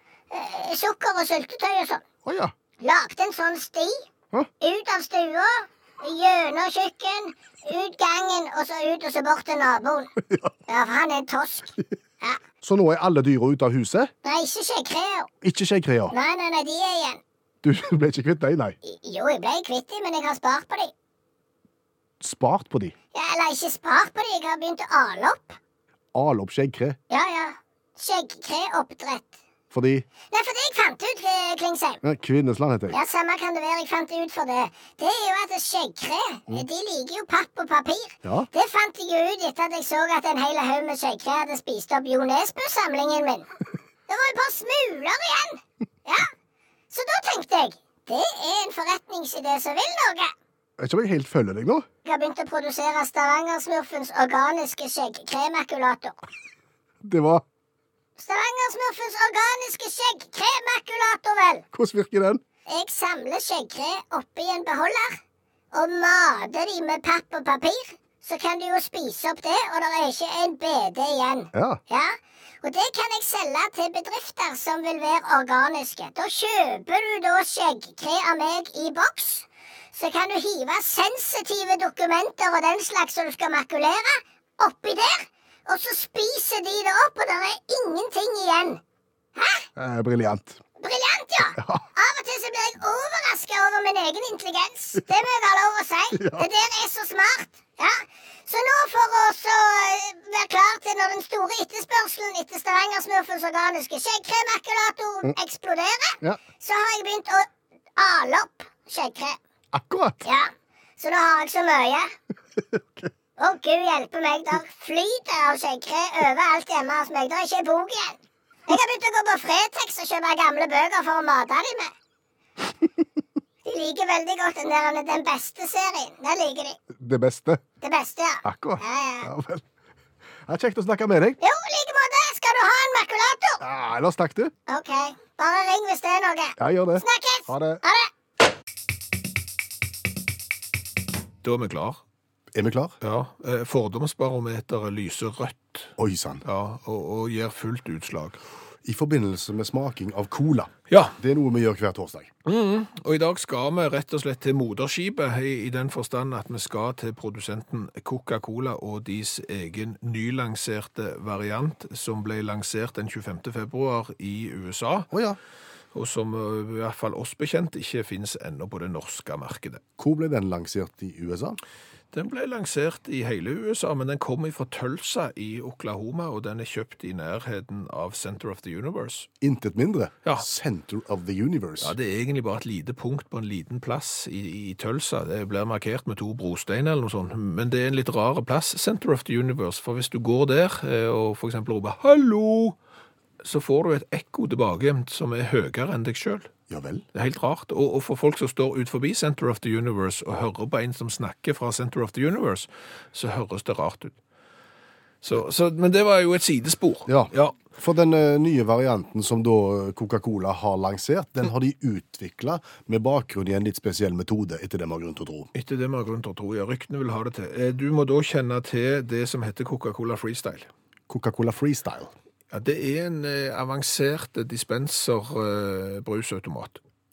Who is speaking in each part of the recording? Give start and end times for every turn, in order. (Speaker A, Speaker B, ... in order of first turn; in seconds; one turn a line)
Speaker A: 0.3-2.0
Speaker B: 2.2-2.5
Speaker A: 2.8-4.0
Speaker A: 4.6-10.1
Speaker A: 10.7-12.4
Speaker B: 12.6-14.1
Speaker A: 14.2-15.3
Speaker B: 15.4-16.1
Speaker A: 16.1-17.2
Speaker B: 17.6-18.8
Speaker A: 18.8-20.9
Speaker B: 22.2-22.9
Speaker A: 23.1-25.6
Speaker B: 26.1-27.0
Speaker A: 27.1-29.4
Speaker B: 29.7-30.1
Speaker A: 30.3-32.0
Speaker B: 32.0-33.0
Speaker A: 32.9-43.5
Speaker B: 38.2-38.5
Speaker A: 44.1-46.3
Speaker A: 46.9-50.3
Speaker B: 50.8-51.9
Speaker A: 52.0-56.2
Speaker B: 57.0-57.4
Speaker A: 58.2-61.6
Speaker B: 61.7-62.4
Speaker A: 62.7-65.2
Speaker A: 65.7-88.8
Speaker B: 71.5-71.8
Speaker A: 89.3-89.7
Speaker B: 89.8-90.6
Speaker A: 90.8-109.4
Speaker B: 91.6-91.8
Speaker B: 96.1-96.5
Speaker B: 109.7-110.2
Speaker A: 110.2-112.1
Speaker B: 112.6-113.1
Speaker A: 113.4-121.9
Speaker A: 123.6-126.8
Speaker B: 126.9-127.6
Speaker A: 127.8-129.3
Speaker B: 128.4-129.6
Speaker B: 130.5-131.4
Speaker A: 131.4-133.6
Speaker B: 133.6-134.5
Speaker A: 134.7-138.1
Speaker B: 136.6-137.8
Speaker C: 141.4-142.0
Speaker B: 142.5-143.0
Speaker C: 143.0-145.9
Speaker B: 146.0-146.4
Speaker C: 146.4-148.4
Speaker B: 148.8-152.3
Speaker C: 150.9-151.2
Speaker C: 152.4-165.1
Speaker B: 165.1-165.4
Speaker C: 165.9-169.8
Speaker B: 170.0-171.6
Speaker C: 172.1-179.3
Speaker B: 179.4-181.9
Speaker C: 181.8-192.8
Speaker C: 193.4-196.5
Speaker B: 196.7-197.0
Speaker C: 197.1-204.2
Speaker C: 205.2-207.6
Speaker B: 207.1-215.5
Speaker C: 215.5-220.7
Speaker B: 221.1-222.1
Speaker C: 222.5-226.8